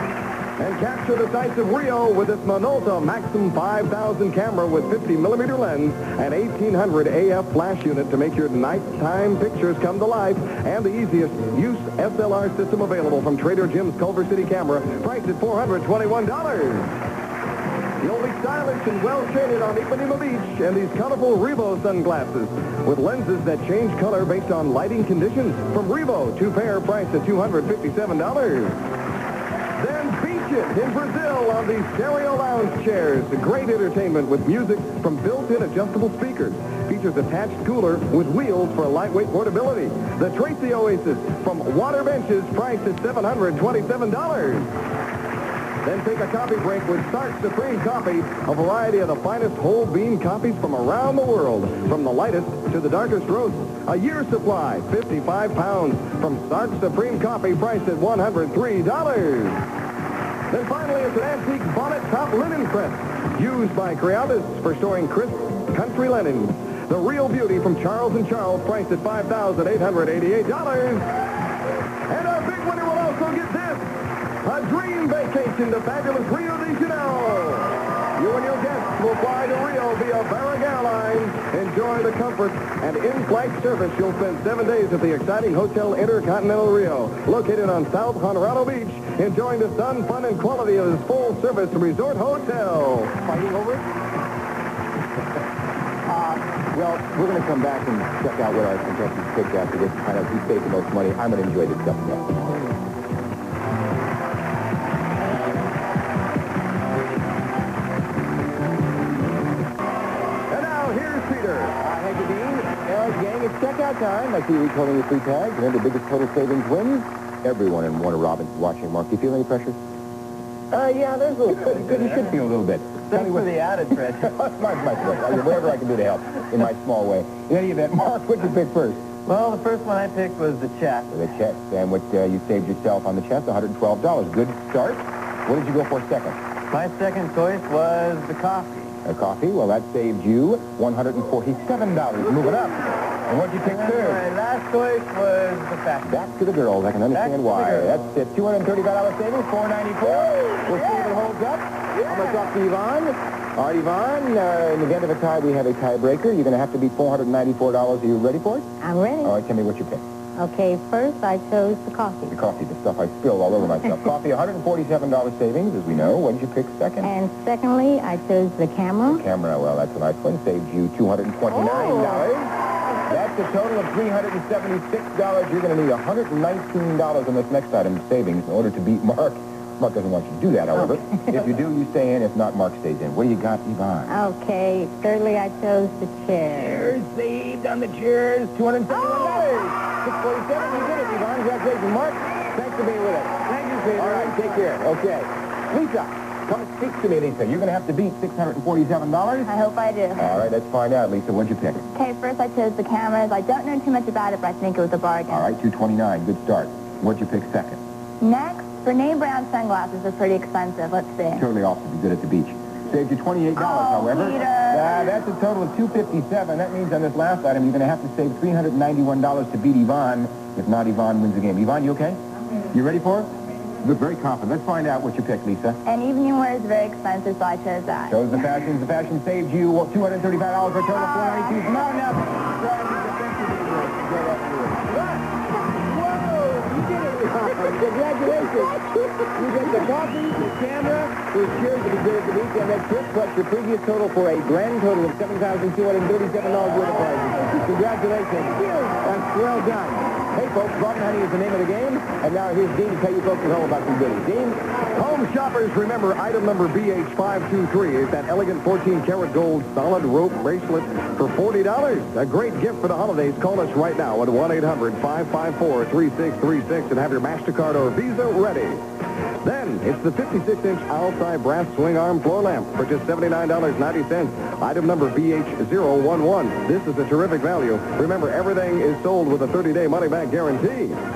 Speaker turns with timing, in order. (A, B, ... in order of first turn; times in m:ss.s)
0:00.6-0:17.0 A
0:18.0-0:28.8 A
0:29.8-0:44.7 A
0:45.8-0:59.6 A
1:00.5-1:11.1 A
1:12.1-1:13.9 A
1:14.4-1:33.2 A
1:33.2-1:33.9 B
1:36.1-1:42.6 B
1:50.5-1:51.8 A
1:51.8-1:59.8 B
2:00.7-2:02.3 C
2:01.5-2:03.5 B
2:03.1-2:04.4 C
2:04.2-2:09.0 B
2:09.3-2:11.1 C
2:11.1-2:16.4 B
2:16.7-2:19.0 C
2:19.0-2:24.2 B
2:23.6-2:26.2 C
2:26.0-2:38.7 B
2:27.1-2:28.1 C
2:38.8-2:39.4 D
2:39.2-2:40.0 B
2:40.4-2:42.3 D
2:42.3-2:47.1 B
2:47.0-2:49.2 D
2:49.1-2:52.5 B
2:53.0-3:04.1 B
3:04.1-3:06.9 D
3:06.5-3:19.5 B
3:19.4-3:20.3 E
3:20.2-3:21.9 B
3:22.0-3:25.4 E
3:25.3-3:27.8 B
3:28.2-3:31.4 E
3:31.4-3:45.8 B
3:33.6-3:35.0 E
3:45.9-3:48.2 E
3:48.1-4:14.7 B
4:14.9-4:28.8 A
4:29.4-4:41.0 A